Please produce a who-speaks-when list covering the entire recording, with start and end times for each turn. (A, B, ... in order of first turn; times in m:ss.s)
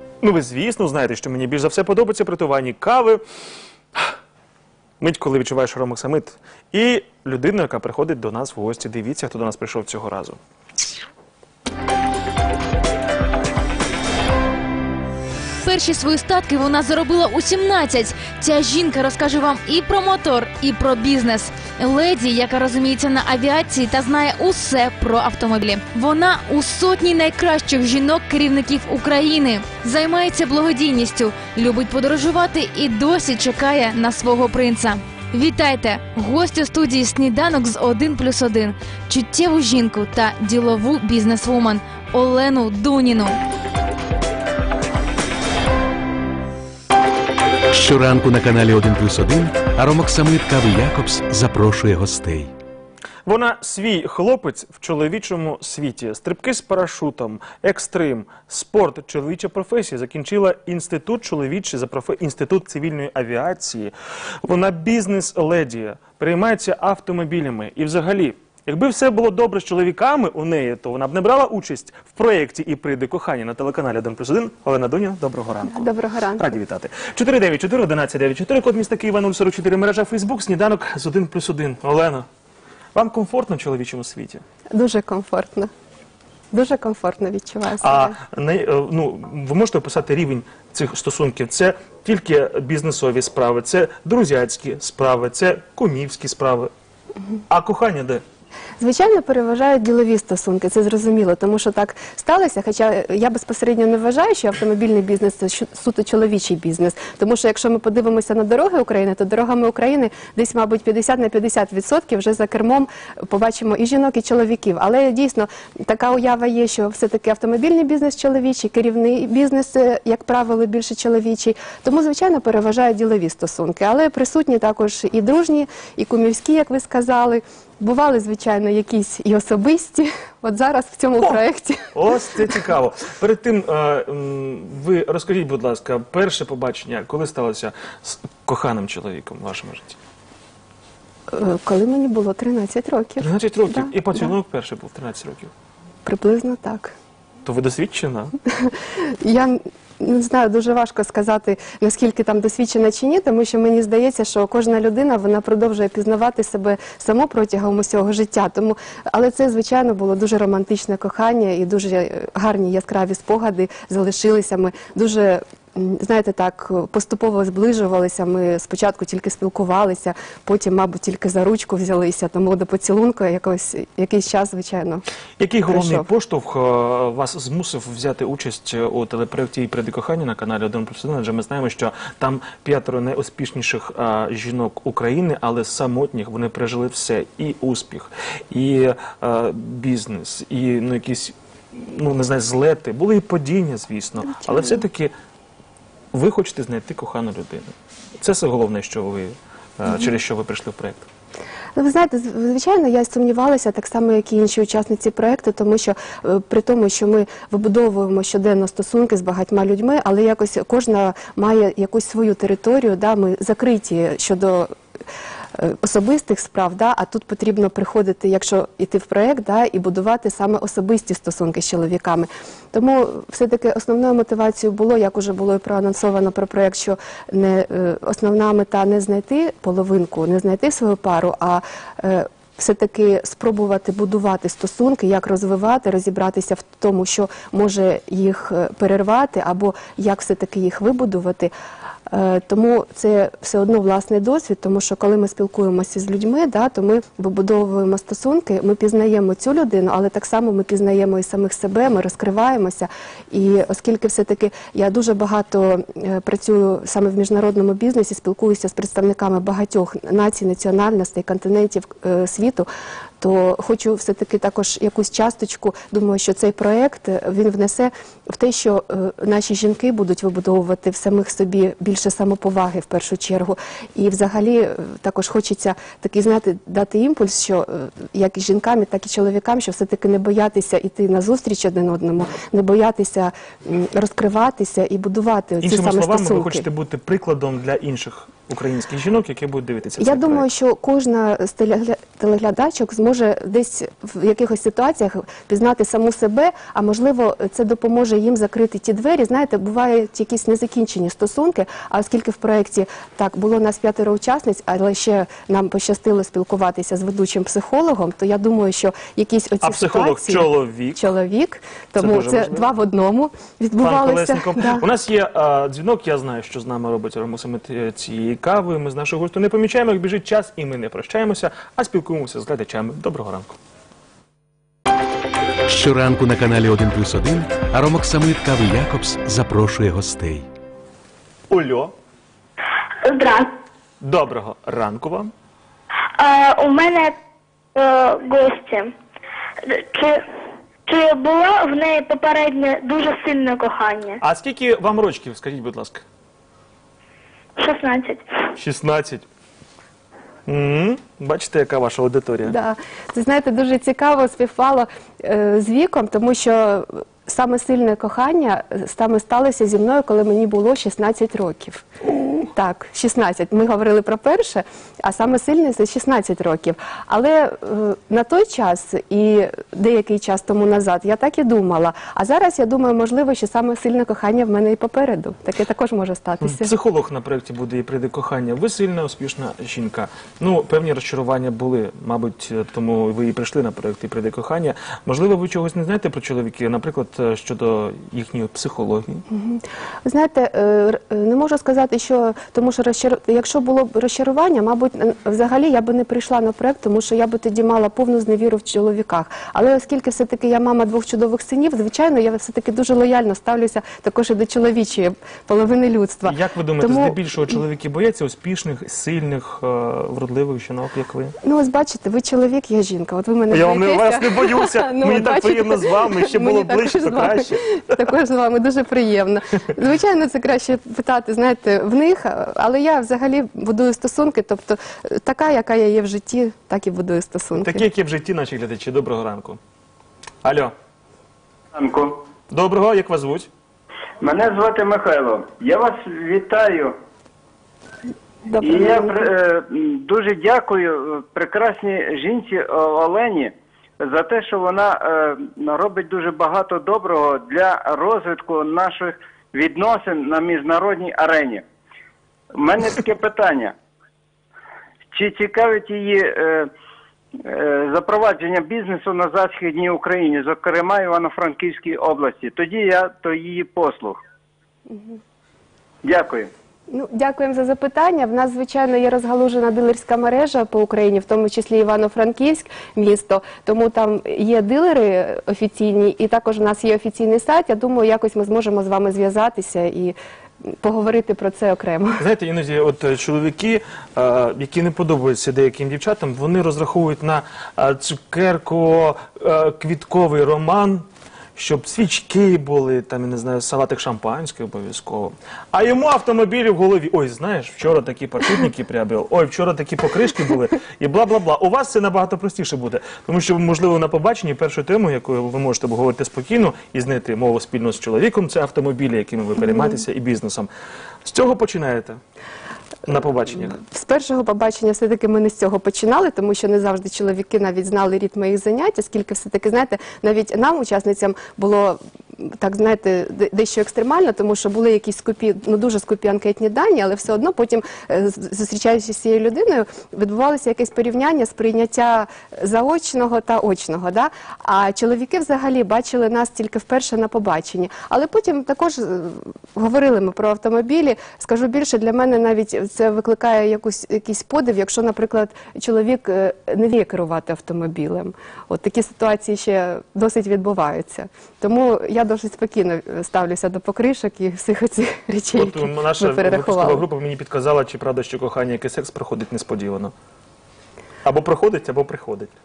0:00.2-0:03.2 A
0:05.0-0:10.4 A
0:15.6-0:43.4 B
0:47.7-0:52.5 C
0:53.3-1:22.3 A
1:15.7-1:16.4 D
1:22.9-1:24.4 A
1:24.7-1:25.7 D
1:26.5-1:28.2 D
1:27.8-1:36.7 A
1:37.5-1:38.2 A
1:38.8-2:11.9 D
2:11.9-2:20.0 A
2:21.3-2:24.3 D
2:23.2-2:25.5 A
2:26.0-2:26.9 D
2:27.4-2:28.3 A
2:28.5-2:55.0 D
2:55.4-3:15.1 A
2:55.7-2:56.1 D
3:16.1-3:21.1 A
3:21.8-3:34.7 D
3:35.6-4:01.5 D
4:02.1-4:22.7 D
4:23.2-4:46.6 D
4:45.6-4:50.5 A
4:50.0-5:14.8 D
5:09.6-5:11.1 A
5:12.0-5:12.7 A
5:13.8-5:23.6 A
5:25.7-5:30.5 C
5:31.5-5:31.9 A
5:33.0-5:33.6 E
5:34.0-5:35.3 A
5:36.2-5:37.2 E
5:37.8-5:38.9 E
5:39.6-5:40.2 E
5:40.9-5:44.2 E
5:44.2-5:46.0 A
5:47.6-5:48.2 E
5:48.6-5:49.3 A
5:50.5-5:52.6 A
5:52.4-6:16.7 D
6:16.4-6:29.2 A
6:29.3-6:47.5 D
6:46.2-6:51.4 A
6:51.4-7:07.8 D
6:53.5-6:58.1 A
7:07.6-7:09.6 A
7:10.4-7:10.7 A
7:11.7-7:12.2 F
7:12.5-7:13.5 A
7:14.2-7:16.9 F
7:18.5-7:19.3 D
7:18.6-7:31.6 F
7:32.6-7:33.7 F
7:35.1-7:36.7 F
7:37.4-7:44.2 F
7:46.0-7:46.5 F
7:46.9-8:02.2 D
8:02.2-8:30.7 A
8:31.2-8:32.2 A
8:33.1-8:33.8 A
8:33.7-9:17.0 D
9:15.5-9:20.1 A
9:21.2-9:22.5 A